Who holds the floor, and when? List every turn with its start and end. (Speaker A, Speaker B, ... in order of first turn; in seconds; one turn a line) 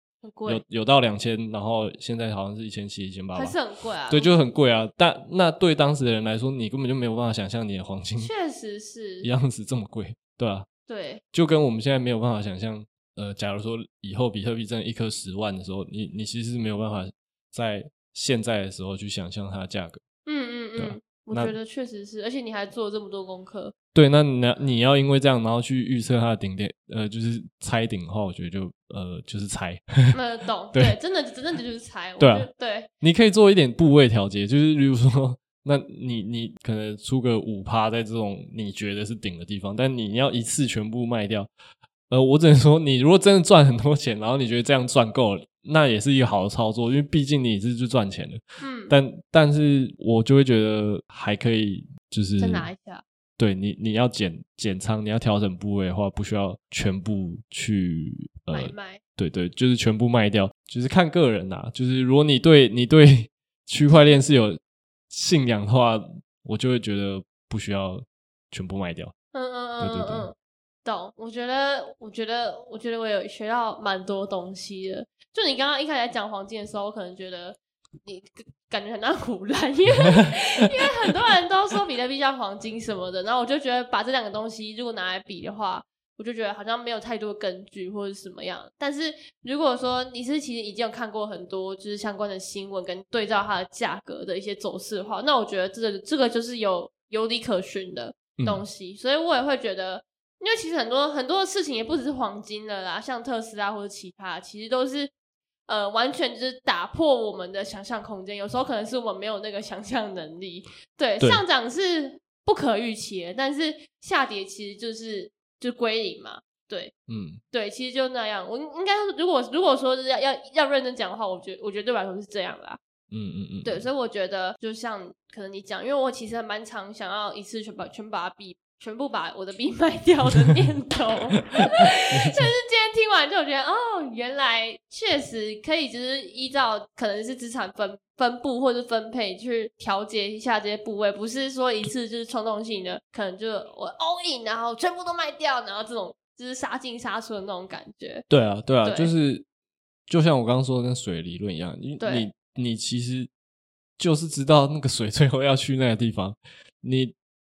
Speaker A: 0.2-0.6
Speaker B: 0.5-3.5
Speaker A: 3.3-4.3
Speaker B: 4.1-8.3
Speaker A: 8.2-9.3
Speaker B: 9.2-10.7
Speaker A: 10.9-11.2
Speaker B: 11.3-20.0
Speaker A: 20.2-23.7
Speaker B: 20.8-21.5
Speaker B: 23.9-30.2
Speaker A: 30.1-32.9
Speaker B: 32.2-32.5
Speaker B: 33.0-41.5
Speaker B: 42.1-52.6
Speaker A: 48.6-48.9
Speaker A: 52.4-53.0
Speaker B: 53.4-64.6
Speaker A: 58.5-59.0
Speaker B: 65.1-69.1
Speaker A: 69.3-105.1
Speaker B: 69.8-70.3
Speaker B: 98.4-98.6
Speaker A: 105.7-116.9
Speaker B: 117.1-117.4
Speaker A: 117.5-122.8
Speaker B: 123.1-123.8
Speaker A: 123.6-148.2
Speaker B: 131.6-132.5
Speaker B: 148.3-149.4
Speaker A: 148.8-149.1
Speaker B: 150.1-153.3
Speaker A: 152.0-152.3
Speaker B: 154.0-157.1